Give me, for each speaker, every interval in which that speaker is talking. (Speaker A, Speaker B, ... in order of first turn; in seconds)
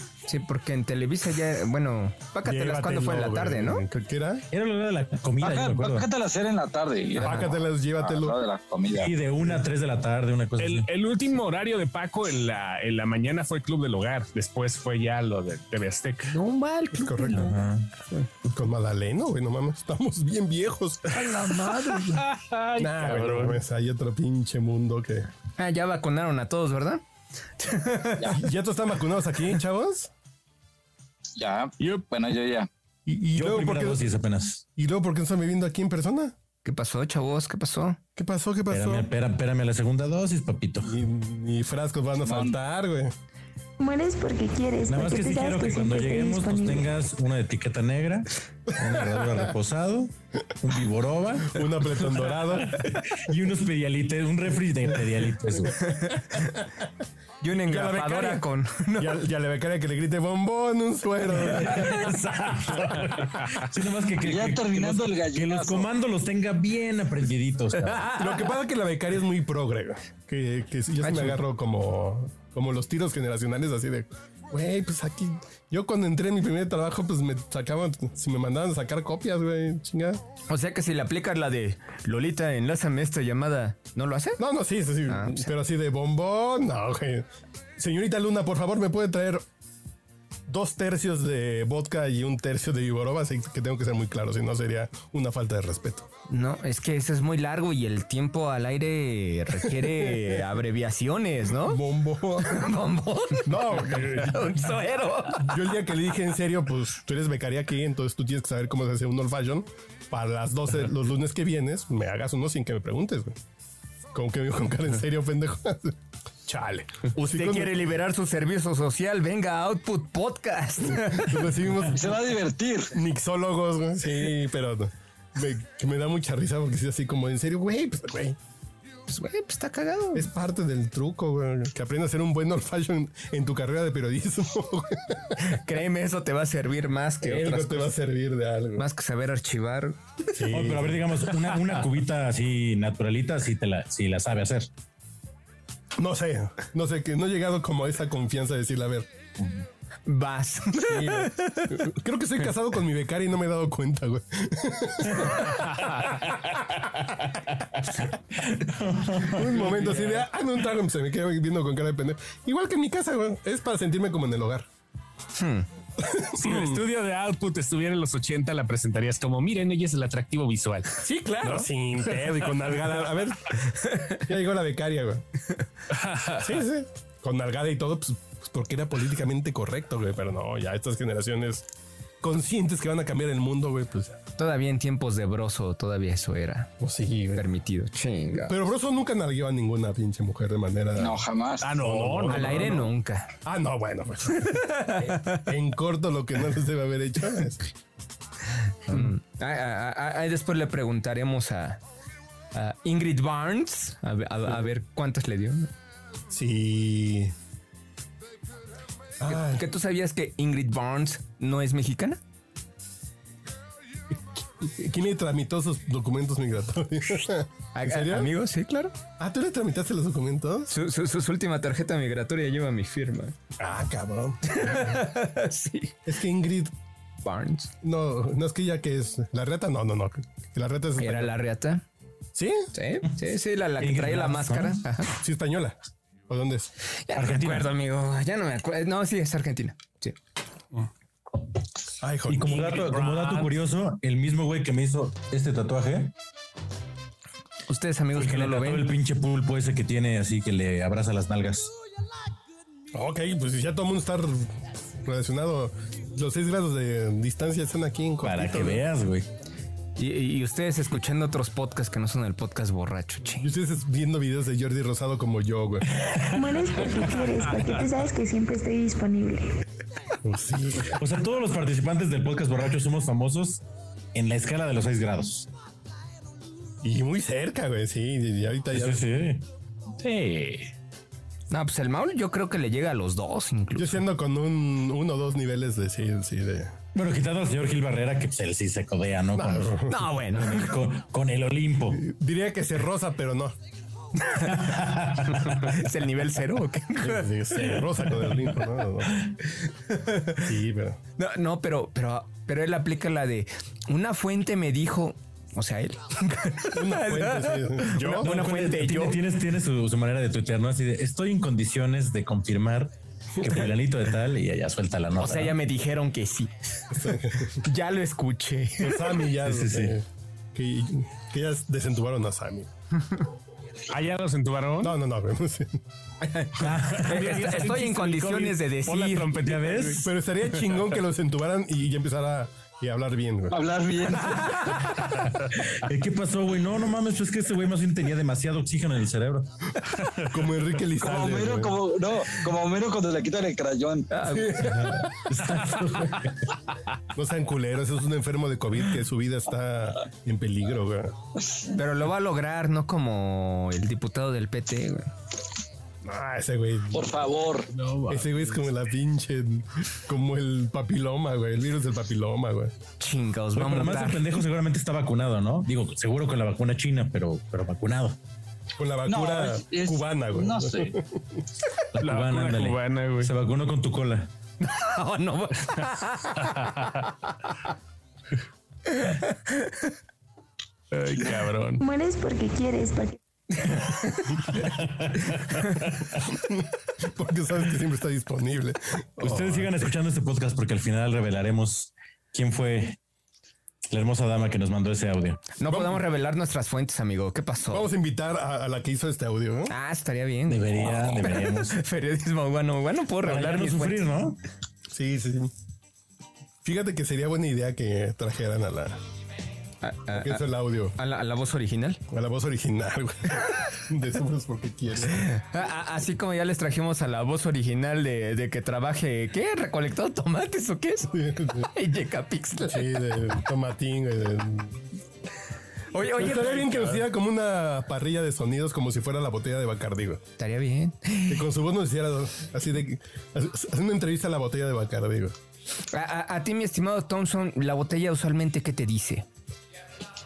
Speaker A: 0.3-3.8, 7.2-7.5, 16.3-17.6, 21.1-22.2, 25.6-27.0, 27.6-28.4, 36.6-38.0, 55.9-56.5, 57.4-59.2, 67.8-68.5, 80.5-84.4, 85.1-85.5, 96.3-101.8, 102.4-105.6, 117.1-121.5, 129.1-130.3, 135.4-137.9, 138.8-140.0, 150.1-151.9, 165.3-165.7, 173.9-174.2, 184.4-186.7, 187.3-188.5, 192.3-193.3, 194.3-195.4, 198.9-201.8, 202.5-205.7, 209.2-212.2, 217.7-218.9, 220.7-223.3, 224.4-225.9, 227.2-227.7, 231.0-231.8, 232.7-235.1, 237.0-240.2, 247.7-248.9, 260.0-263.5, 281.5-284.0, 289.9-290.8, 294.2-294.8, 295.4-297.3, 299.8-300.4, 301.2-309.2, 315.1-316.5, 317.1-319.2, 326.2-329.4, 334.4-334.9, 344.1-344.9, 351.7-355.1, 363.0-364.4, 374.6-376.9, 378.9-379.8, 383.6-384.4, 395.6-397.9, 399.7-404.1, 409.8-412.0, 415.0-423.2, 425.9-427.0, 430.4-431.4, 435.9-439.3
Speaker B: 2.4-4.5, 7.2-8.4, 16.9-17.6, 18.4-21.3, 22.8-25.3, 28.3-30.1, 33.0-34.1, 34.8-36.3, 38.1-39.1, 40.8-43.1, 51.5-52.8, 57.7-62.1, 68.2-80.2, 84.4-89.4, 90.5-96.1, 99.7-100.4, 101.6-102.7, 103.4-104.8, 105.3-113.4, 114.1-117.8, 120.9-122.1, 122.9-128.4, 130.1-135.4, 137.2-138.8, 140.3-141.2, 146.0-149.1, 150.8-155.6, 159.2-164.7, 166.0-166.8, 171.0-175.2, 176.3-181.7, 182.2-184.2, 186.8-187.4, 188.4-192.9, 193.4-197.7, 206.3-207.3, 209.2-209.6, 214.6-218.3, 219.2-220.7, 223.6-225.0, 226.1-226.7, 227.8-231.3, 232.3-232.7, 235.2-235.8, 236.3-236.7, 242.0-242.7, 252.9-258.8, 263.4-265.9, 270.2-271.0, 276.8-279.1, 283.8-286.7, 289.3-289.9, 291.9-293.5, 297.0-299.2, 300.3-301.0, 306.7-308.4, 316.9-317.6, 318.8-322.7, 324.8-325.8, 330.0-333.6, 340.2-341.8, 344.3-345.3, 347.1-351.1, 356.0-357.2, 358.1-362.7, 368.8-371.4, 386.3-389.8, 395.7-396.0, 397.7-399.7, 404.9-405.5, 406.6-409.0, 410.1-410.9, 412.1-415.3, 421.1-421.7, 422.6-424.8, 426.1-430.2, 431.3-435.3
Speaker C: 4.5-6.1, 8.9-10.9, 17.3-17.9, 33.3-34.6, 38.7-41.0, 44.9-55.9, 61.4-68.1, 140.4-144.7, 149.4-149.6, 158.0-160.1, 233.8-234.8, 237.1-237.7, 242.3-246.1, 248.1-251.7, 258.2-259.3, 266.0-266.4, 270.9-273.6, 274.1-275.5, 278.7-279.4, 286.9-292.0, 294.4-295.7, 308.2-315.6, 319.4-319.9, 326.6-327.6, 329.3-330.1, 335.0-339.5, 344.6-346.5, 363.5-368.2, 371.9-374.3, 384.4-386.2, 389.2-393.0, 393.9-395.4, 400.5-401.8, 403.2-404.4
Speaker D: 5.4-9.1, 31.4-32.7, 42.2-42.5, 64.2-65.9, 121.9-122.9, 191.0-191.8, 333.5-334.6, 341.0-344.1, 356.9-357.7, 369.1-371.0
Speaker E: 10.6-16.3, 22.0-23.6, 166.4-171.5, 175.9-176.4, 191.6-192.8, 242.5-243.5, 280.0-280.7, 323.9-324.9, 327.0-330.1, 357.8-358.4, 372.0-373.3, 376.4-376.9, 380.9-381.8
Speaker F: 43.8-46.9, 266.3-269.6, 381.8-383.2